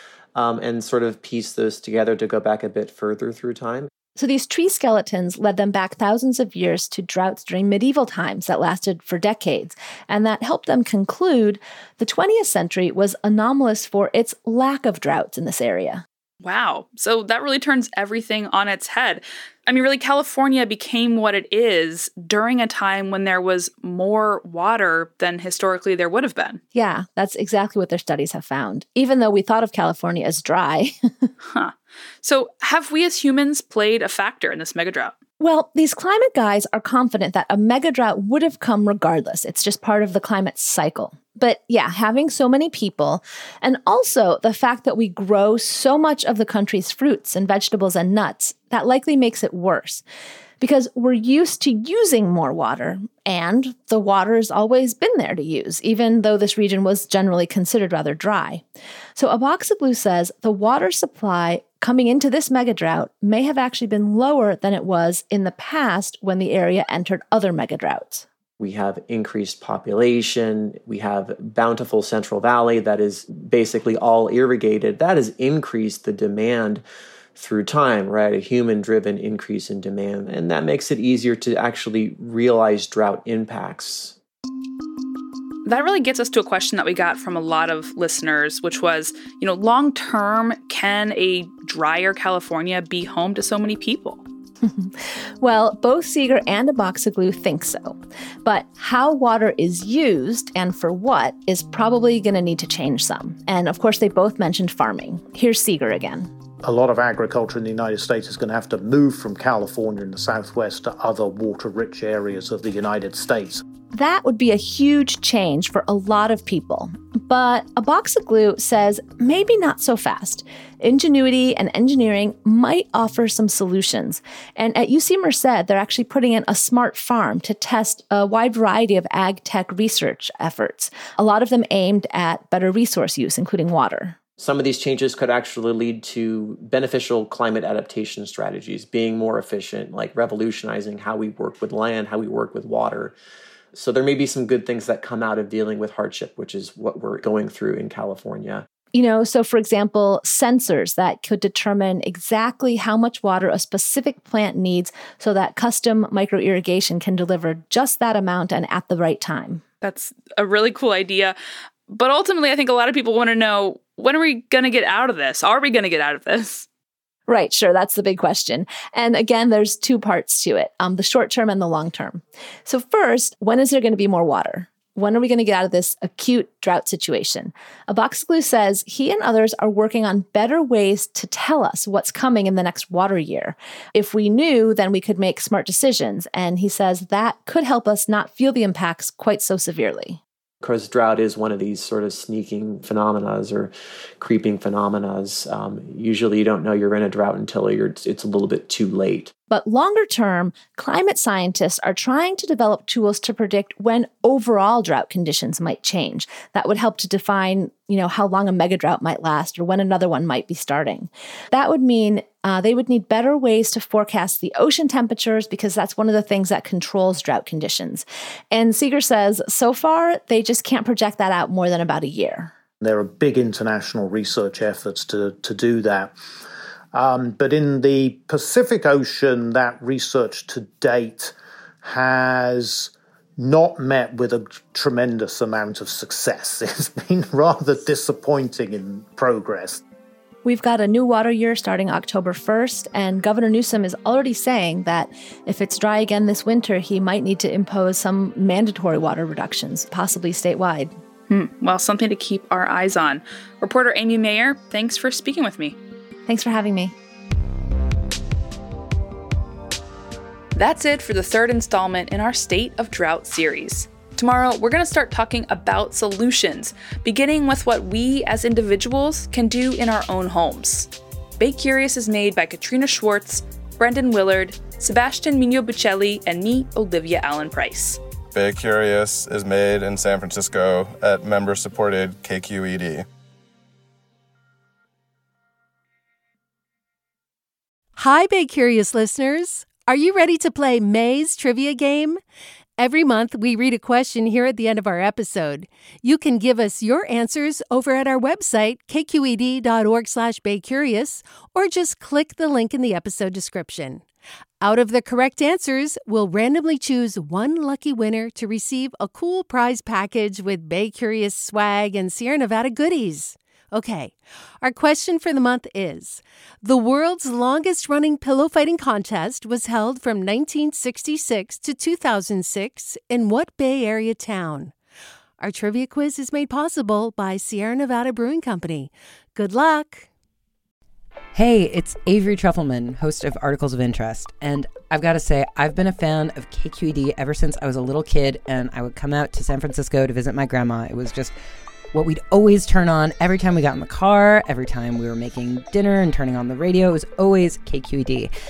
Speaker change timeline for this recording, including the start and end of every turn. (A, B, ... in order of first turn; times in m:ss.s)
0:00.4-0:03.9 A
0:04.2-0:16.0 B
0:16.4-0:26.6 C
0:26.7-0:31.3 B
0:31.5-0:35.1 C
0:35.4-0:50.0 B
0:50.6-0:58.6 B
0:59.2-1:08.3 B
1:08.6-1:16.8 A
1:17.4-1:24.2 A
1:25.6-1:34.2 C
1:34.6-1:46.3 B
1:46.6-1:53.6 D
1:53.9-2:14.2 B
2:14.4-2:23.2 A
2:23.7-2:28.6 A
2:28.9-2:39.6 B
2:39.8-2:41.4 C
2:41.9-2:46.7 C
2:47.3-3:10.2 B
3:10.6-3:19.3 A
3:19.5-3:42.5 B
3:42.8-3:46.1 D
3:46.9-3:59.8 D
4:00.4-4:10.9 B
4:11.3-4:15.8 C
4:16.3-4:16.9 B
4:20.6-4:38.0 C
4:38.3-4:43.1 E
4:48.0-4:52.2 F
4:52.8-5:04.0 F
5:04.6-5:24.8 F
5:25.4-5:30.1 F
5:31.3-5:41.3 G
5:41.9-5:48.3 G